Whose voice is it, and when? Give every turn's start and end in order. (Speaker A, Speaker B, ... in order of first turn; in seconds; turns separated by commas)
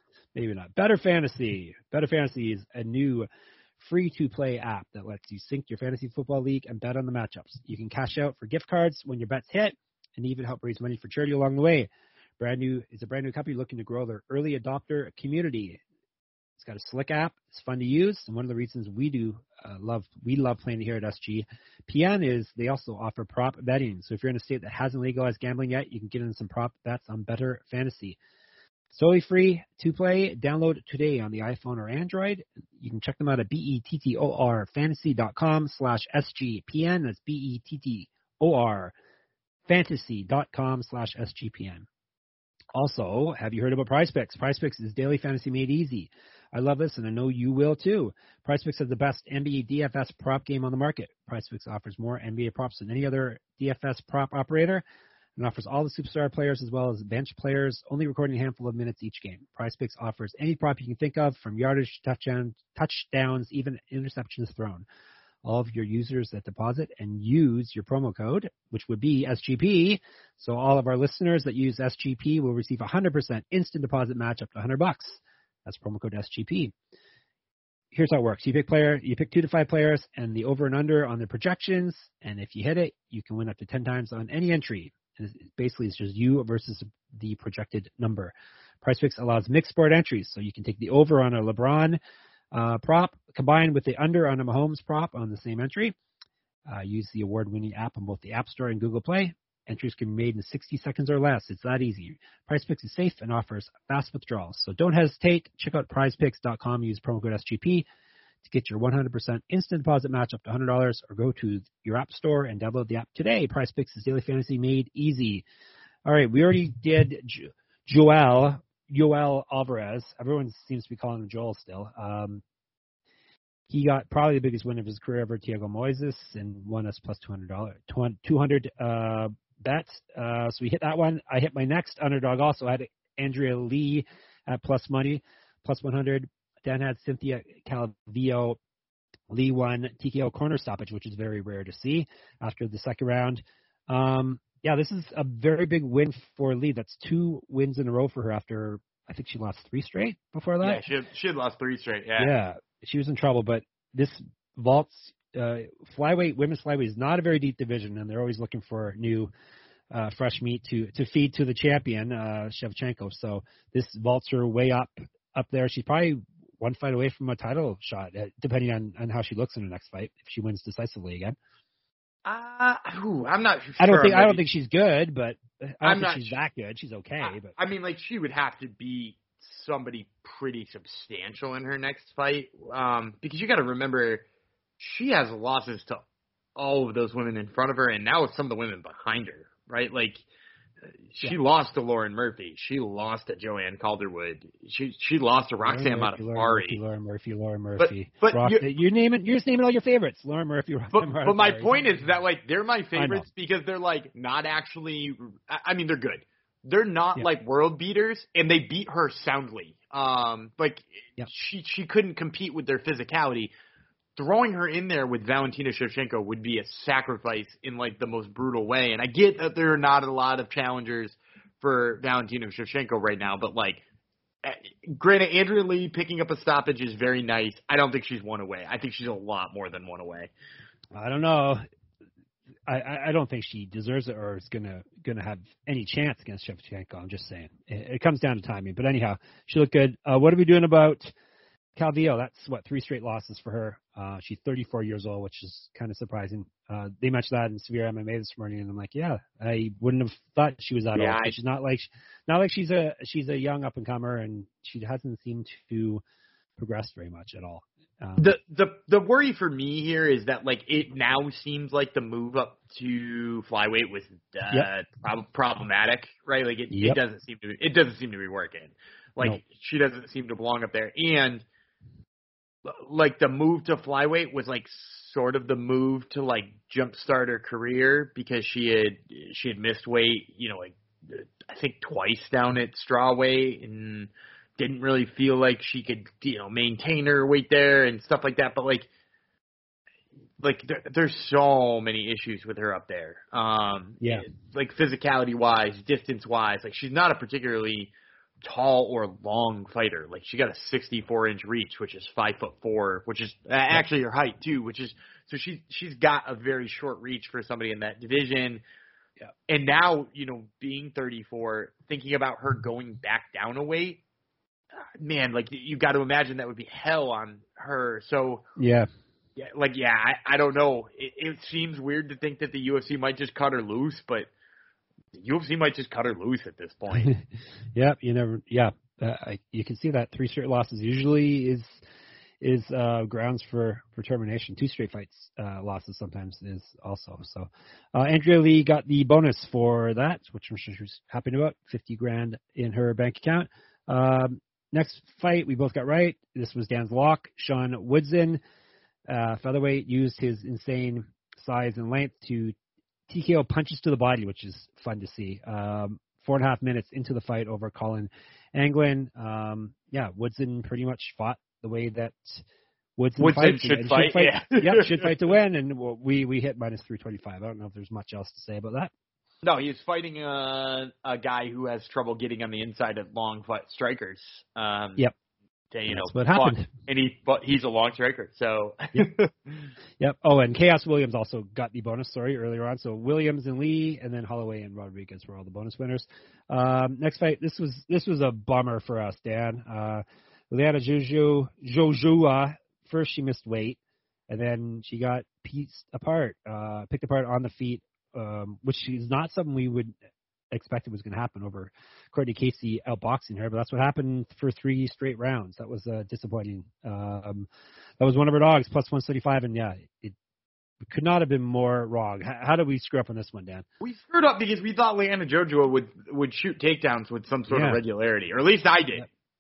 Speaker A: 0.3-3.3, Speaker A: 3.8-15.8, Speaker A: 16.6-28.2, Speaker A: 28.9-38.9, Speaker A: 39.7-41.9, Speaker A: 42.8-54.8, Speaker A: 55.4-64.8, Speaker A: 65.4-76.7, Speaker A: 77.9-92.0, Speaker A: 92.5-96.0, Speaker A: 96.7-107.8, Speaker A: 108.4-115.4, Speaker A: 116.0-122.4, Speaker A: 123.7-138.6, Speaker A: 139.3-150.8, Speaker B: 150.6-152.3, Speaker A: 152.2-159.3, Speaker A: 159.9-171.4, Speaker B: 172.3-174.4, Speaker A: 173.8-177.5, Speaker B: 175.8-176.4, Speaker B: 177.2-184.2, Speaker B: 184.8-186.0, Speaker B: 186.6-190.2, Speaker B: 191.1-196.8, Speaker A: 195.7-201.8, Speaker B: 197.8-198.7, Speaker B: 200.9-213.5, Speaker A: 202.9-203.3, Speaker B: 214.2-223.8, Speaker B: 224.4-230.3, Speaker A: 230.9-231.6, Speaker A: 232.7-241.1, Speaker A: 241.8-256.0, Speaker B: 250.9-251.4, Speaker A: 256.6-258.3, Speaker B: 258.2-271.4, Speaker A: 266.7-267.0, Speaker B: 272.7-288.9, Speaker B: 290.4-297.9, Speaker B: 298.4-308.6, Speaker B: 309.5-314.0, Speaker B: 315.0-318.4, Speaker A: 318.6-318.9, Speaker B: 319.4-324.3, Speaker B: 325.1-327.1, Speaker A: 327.8-331.8, Speaker A: 332.4-348.4, Speaker A: 349.1-352.6, Speaker A: 353.1-362.4, Speaker A: 363.0-368.9, Speaker B: 363.2-365.1, Speaker B: 369.4-375.1, Speaker B: 375.7-379.7, Speaker A: 375.9-376.7, Speaker A: 380.0-393.8, Speaker A: 394.3-399.9, Speaker A: 400.5-407.5, Speaker A: 408.0-410.2, Speaker A: 410.8-413.6, Speaker B: 413.8-419.1, Speaker A: 417.5-417.8